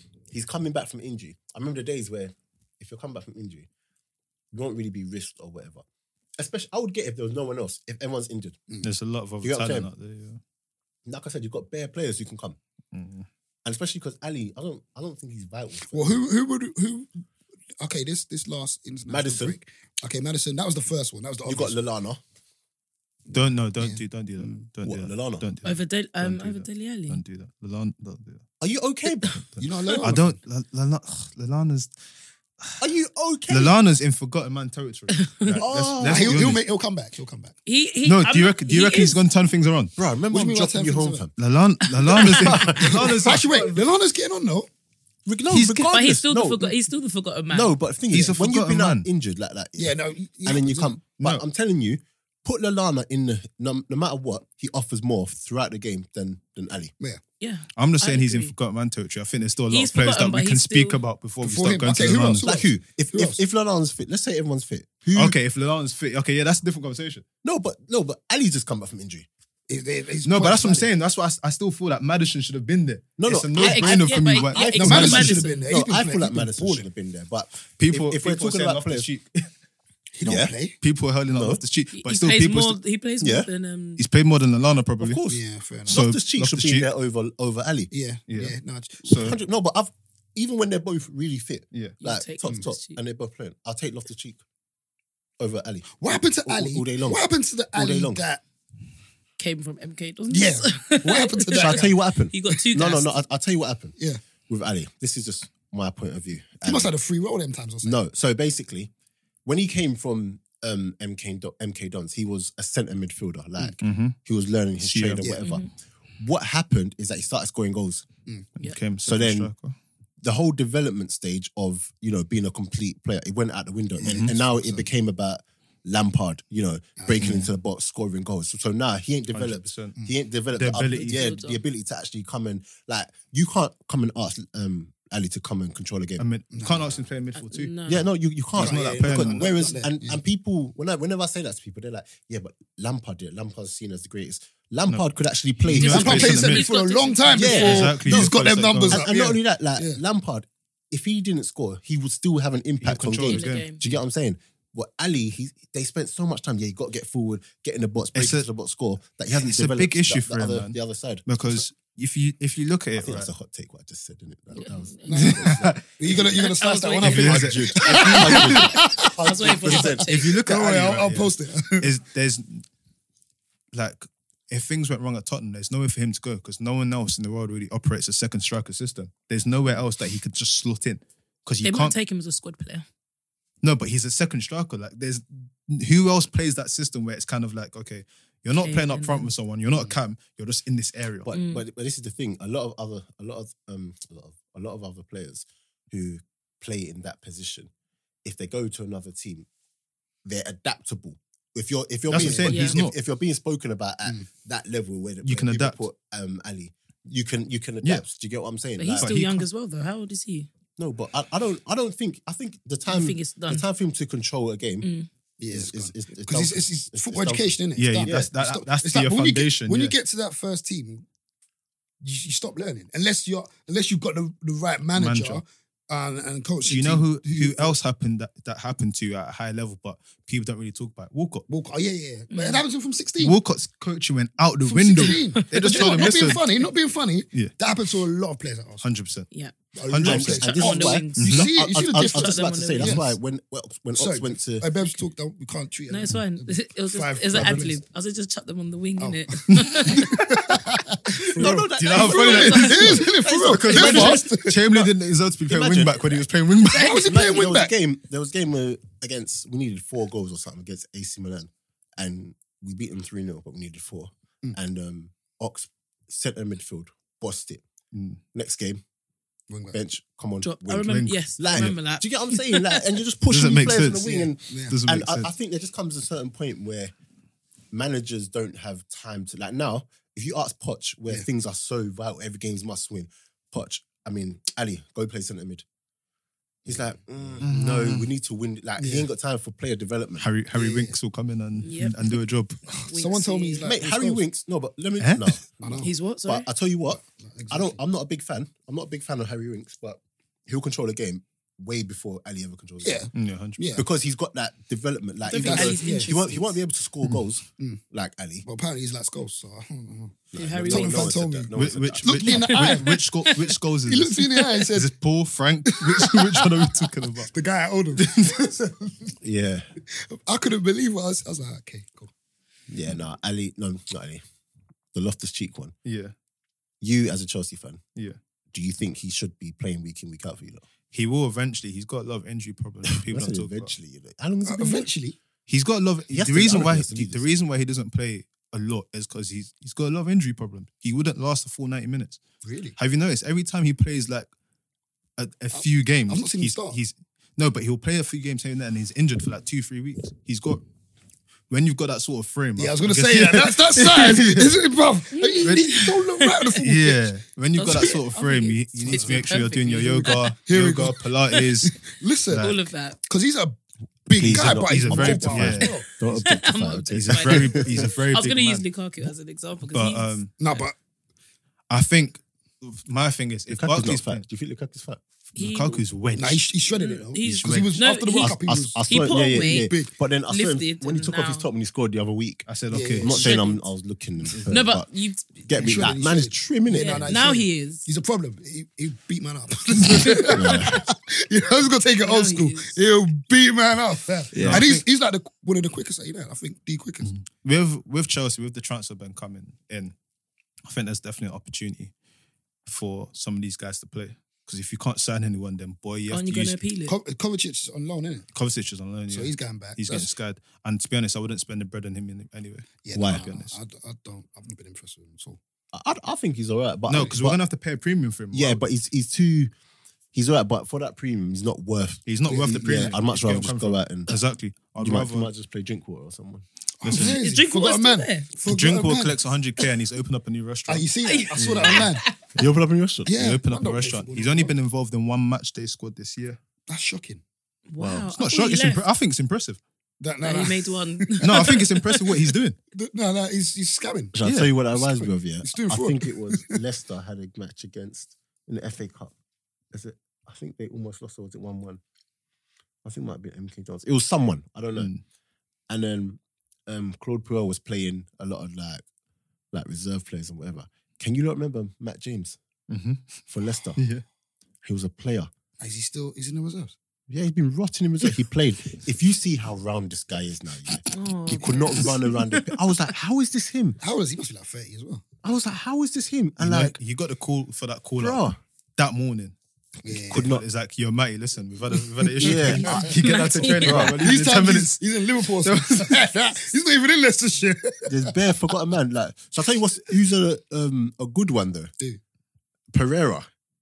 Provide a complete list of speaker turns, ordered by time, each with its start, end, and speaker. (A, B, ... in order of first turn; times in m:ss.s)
0:00.3-0:03.7 A
0:04.5-0:05.8 A
0:06.4-0:08.6 A
0:08.8-0:10.4 B
0:09.4-0:09.9 A
0:11.0-0:12.6 A
0:12.9-0:13.2 B
0:13.6-0:16.2 A
0:15.8-0:17.2 C
0:17.8-0:21.8 C
0:19.1-0:19.6 A
0:21.4-0:22.2 A
0:23.3-0:28.4 B
0:23.8-0:24.6 C
0:24.8-0:25.5 A
0:25.6-0:27.2 D
0:28.6-0:29.9 A
0:29.2-0:31.9 B
0:29.6-0:30.4 C
0:32.8-0:33.8 A
0:33.5-0:36.6 B
0:35.1-0:35.6 D
0:35.6-0:36.5 A
0:36.0-0:37.6 C
0:37.6-0:39.2 D
0:38.0-0:39.9 B
0:40.0-0:41.3 A
0:40.3-0:41.2 C
0:41.4-0:43.8 B
0:42.1-0:43.5 A
0:42.2-0:44.7 C
0:45.2-0:46.8 A
0:45.5-0:45.8 B
0:45.5-0:47.7 D
0:47.5-0:56.9 A
0:48.1-0:49.1 B
0:49.8-0:50.9 C
0:57.4-0:58.5 D
0:57.8-1:02.5 B
0:59.7-1:01.0 D
1:01.4-1:03.4 C
1:02.4-1:05.4 A
1:05.1-1:07.2 B
1:07.4-1:09.3 A
1:09.7-1:10.9 C
1:10.2-1:15.4 B
1:13.2-1:19.1 A
1:13.6-1:15.7 D
1:14.7-1:16.9 C
1:17.8-1:19.5 B
1:20.1-1:20.8 C
1:20.2-1:20.5 A
1:20.8-1:22.8 B
1:21.3-1:21.6 A
1:21.9-1:24.0 D
1:23.2-1:23.5 A
1:24.0-1:25.2 B
1:25.0-1:27.9 A
1:25.3-1:26.0 C
1:25.9-1:26.9 B
1:27.9-1:29.1 C
1:28.3-1:29.4 B
1:29.0-1:34.4 A
1:32.0-1:33.0 D
1:35.4-1:37.2 A
1:35.9-1:38.4 C
1:37.7-1:38.2 A
1:39.4-1:43.2 D
1:40.3-1:42.0 C
1:41.6-1:43.9 A
1:44.5-1:46.9 A
1:46.6-1:48.0 C
1:47.8-1:48.9 A
1:49.4-1:55.6 A
1:53.6-1:54.2 B
1:54.8-1:55.3 B
1:55.2-1:55.4 C
1:55.4-1:55.7 D
1:56.2-1:58.0 A
1:58.6-1:59.7 B
1:59.0-1:59.5 A
2:00.2-2:16.2 A
2:04.0-2:04.9 C
2:04.0-2:04.3 B
2:07.0-2:07.5 C
2:07.2-2:07.5 B
2:09.3-2:09.9 B
2:10.6-2:11.2 B
2:10.9-2:11.6 D
2:16.2-2:17.7 B
2:16.5-2:17.0 C
2:17.3-2:18.0 D
2:17.9-2:26.4 A
2:18.5-2:20.2 C
2:18.6-2:19.7 B
2:25.7-2:27.9 D
2:25.7-2:26.7 B
2:25.8-2:30.0 C
2:27.3-2:41.6 A
2:27.5-2:29.1 B
2:32.8-2:33.6 B
2:33.3-2:33.8 D
2:38.1-2:38.5 B
2:39.3-2:43.3 B
2:43.0-2:45.8 A
2:44.6-2:45.4 D
2:45.1-2:49.1 C
2:45.1-2:45.8 B
2:46.1-2:48.5 D
2:47.0-2:48.9 B
2:47.3-2:50.1 A
2:49.2-2:50.4 D
2:49.7-2:51.9 C
2:49.8-2:52.6 B
2:53.7-3:01.9 B
3:01.6-3:02.8 D
3:03.6-3:11.3 B
3:08.5-3:09.3 D
3:11.2-3:17.7 A
3:11.3-3:11.6 D
3:18.2-3:19.5 A
3:20.2-3:29.1 A
3:22.1-3:22.9 B
3:22.2-3:22.5 C
3:22.5-3:22.8 D
3:25.2-3:25.8 B
3:28.8-3:30.5 D
3:29.0-3:29.4 B
3:30.8-3:34.9 A
3:32.9-3:33.6 D
3:34.8-3:35.1 D
3:35.4-3:41.0 C
3:35.5-3:38.3 A
3:37.8-3:39.9 B
3:42.0-3:47.8 C
3:44.9-3:45.4 B
3:46.6-3:51.4 B
3:51.5-3:53.4 C
3:52.3-3:52.6 D
3:53.2-3:56.4 B
3:54.6-3:58.9 C
3:55.0-3:56.4 D
3:58.8-3:59.3 B
3:59.7-4:03.1 C
3:59.9-4:00.6 B
4:00.0-4:04.7 A
4:00.2-4:03.0 D
4:01.2-4:01.5 B
4:04.0-4:07.8 C
4:05.9-4:10.2 D
4:09.0-4:14.9 C
4:09.5-4:10.2 B
4:11.2-4:14.3 A
4:11.4-4:17.1 B
4:12.2-4:12.6 D
4:15.5-4:16.3 A
4:16.7-4:17.7 C
4:16.7-4:17.1 D
4:16.8-4:27.6 A
4:27.9-4:28.2 B
4:28.3-4:28.8 A
4:29.5-4:29.8 C
4:29.7-4:36.9 A
4:30.4-4:33.0 D
4:30.8-4:31.8 B
4:33.3-4:34.1 B
4:34.0-4:34.8 C
4:34.7-4:35.3 B
4:37.7-4:45.6 A
4:46.6-4:50.3 A
4:47.4-4:48.1 B
4:48.8-4:49.1 C
4:50.2-4:52.6 B
4:50.5-4:50.9 C
4:51.6-4:52.0 D
4:52.7-4:54.2 C
4:52.9-4:53.6 D
4:53.6-5:03.1 A
4:55.0-4:55.4 B
4:55.6-4:55.9 C
4:55.8-4:56.5 D
4:56.9-4:57.8 C
5:02.8-5:03.8 C
5:03.1-5:03.6 B
5:03.7-5:08.4 A
5:05.2-5:06.4 D
5:05.4-5:06.3 C
5:08.4-5:13.3 C
5:10.3-5:12.3 A
5:10.3-5:11.2 D
5:11.5-5:17.3 B
5:12.2-5:13.5 D
5:13.8-5:14.9 C
5:15.7-5:19.2 C
5:18.0-5:18.4 B
5:19.2-5:19.7 A
5:19.9-5:22.1 C
5:22.7-5:24.2 A
5:24.9-5:25.7 A
5:25.8-5:26.1 B
5:26.8-5:27.8 A
5:28.5-5:30.6 A
5:30.9-5:33.7 B
5:32.9-5:34.9 A
5:34.4-5:35.2 C
5:35.5-5:42.2 B
5:36.1-5:37.2 A
5:42.4-5:42.7 C
5:42.8-5:44.3 B
5:45.2-5:50.6 B
5:45.5-5:46.8 C
5:51.5-5:54.5 B
5:52.6-5:57.0 C
5:55.1-5:56.6 D
5:55.4-5:55.8 B
5:56.6-6:01.7 B
5:57.6-6:00.3 D
5:58.9-5:59.2 C
6:00.4-6:01.0 C
6:01.6-6:05.9 C
6:02.3-6:02.6 B
6:02.3-6:03.0 D
6:04.1-6:07.8 A
6:04.3-6:05.7 B
6:05.6-6:10.6 D
6:07.0-6:08.6 B
6:09.7-6:10.3 B
6:10.4-6:10.7 C
6:11.7-6:14.2 B
6:13.5-6:15.0 A
6:15.3-6:16.5 B
6:15.4-6:15.8 D
6:16.2-6:19.9 C
6:16.7-6:19.7 D
6:17.2-6:17.7 B
6:18.2-6:22.5 A
6:20.3-6:21.4 D
6:22.5-6:23.3 B
6:22.7-6:23.1 C
6:23.0-6:24.9 A
6:23.0-6:23.6 D
6:24.2-6:24.6 B
6:24.5-6:25.9 D
6:25.4-6:37.1 C
6:25.5-6:27.3 A
6:26.7-6:27.8 D
6:30.2-6:30.7 D
6:30.3-6:30.8 A
6:32.0-6:32.8 D
6:34.3-6:34.6 A
6:34.4-6:34.8 B
6:37.0-6:39.9 B
6:40.7-6:41.9 B
6:42.7-6:46.6 B
6:46.1-6:46.9 D
6:46.9-6:48.3 C
6:48.3-6:53.6 B
6:49.1-6:50.1 C
6:52.8-6:55.4 C
6:52.9-6:53.2 A
6:55.7-6:57.4 A
6:56.9-6:58.6 B
6:58.3-6:59.5 A
7:00.1-7:04.1 A
7:02.1-7:05.3 B
7:02.3-7:02.6 C
7:04.8-7:06.4 A
7:06.8-7:09.2 C
7:06.8-7:07.2 B
7:07.2-7:08.3 D
7:08.4-7:11.9 B
7:10.7-7:12.0 C
7:11.0-7:12.2 D
7:12.4-7:13.1 A
7:13.0-7:14.5 C
7:13.1-7:16.4 B
7:16.7-7:17.2 C
7:17.7-7:18.8 D
7:17.8-7:19.6 B
7:20.0-7:21.7 C
7:20.2-7:22.0 D
7:21.2-7:22.6 B
7:22.7-7:24.2 C
7:24.1-7:29.1 A
7:24.2-7:24.5 B
7:24.7-7:26.6 C
7:29.7-7:31.8 A
7:32.8-7:34.9 A
7:34.8-7:35.0 B
7:35.7-7:38.8 A
7:39.5-7:42.4 A
7:42.7-7:43.2 B
7:43.3-7:43.8 A
7:43.8-7:44.0 B
7:44.6-7:45.3 A
7:45.6-7:46.7 C
7:47.1-7:53.8 A
7:50.9-7:52.3 D
7:53.8-7:55.0 C
7:55.2-7:56.8 A
7:56.4-7:59.3 B
7:58.0-7:58.4 A
7:59.8-8:00.2 C
7:59.9-8:06.0 B
8:00.1-8:00.4 A
8:02.0-8:02.9 C
8:02.2-8:04.0 A
8:03.0-8:03.9 D
8:03.4-8:08.3 C
8:07.9-8:11.7 A
8:12.7-8:13.3 A